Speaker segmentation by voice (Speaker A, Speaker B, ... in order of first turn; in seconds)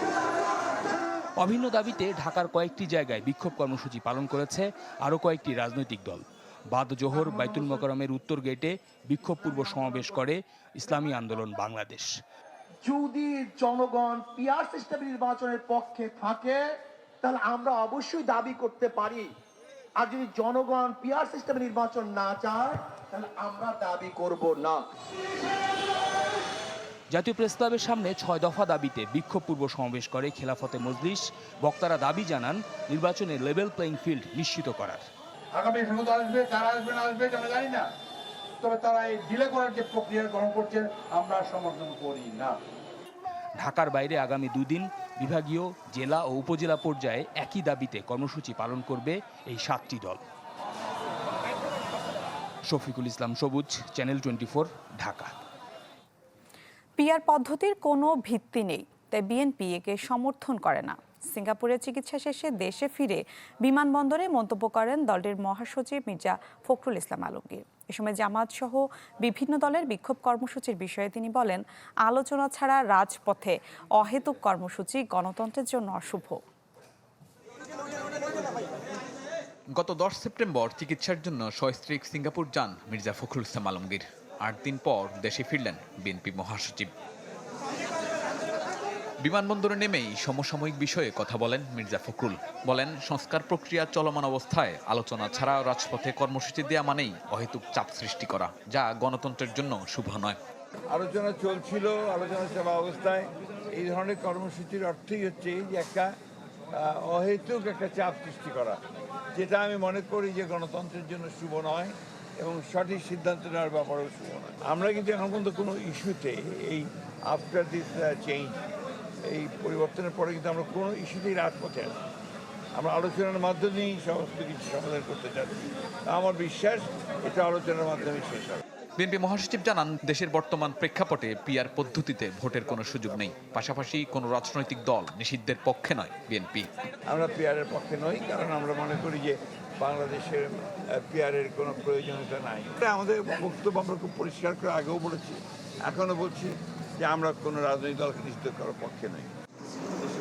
Speaker A: 1.4-12.1, 27.1-35.0, 43.6-50.2, 52.6-55.3
Speaker B: 12.8-16.6, 17.2-19.3, 20.0-24.9
Speaker C: 35.6-37.8, 38.6-42.5
Speaker D: 57.0-76.4
Speaker E: 79.7-86.9, 89.2-100.4, 129.0-136.7
Speaker F: 100.9-106.1, 106.8-108.8, 109.3-118.6, 119.3-122.0, 122.8-128.6, 137.1-140.5, 141.1-149.3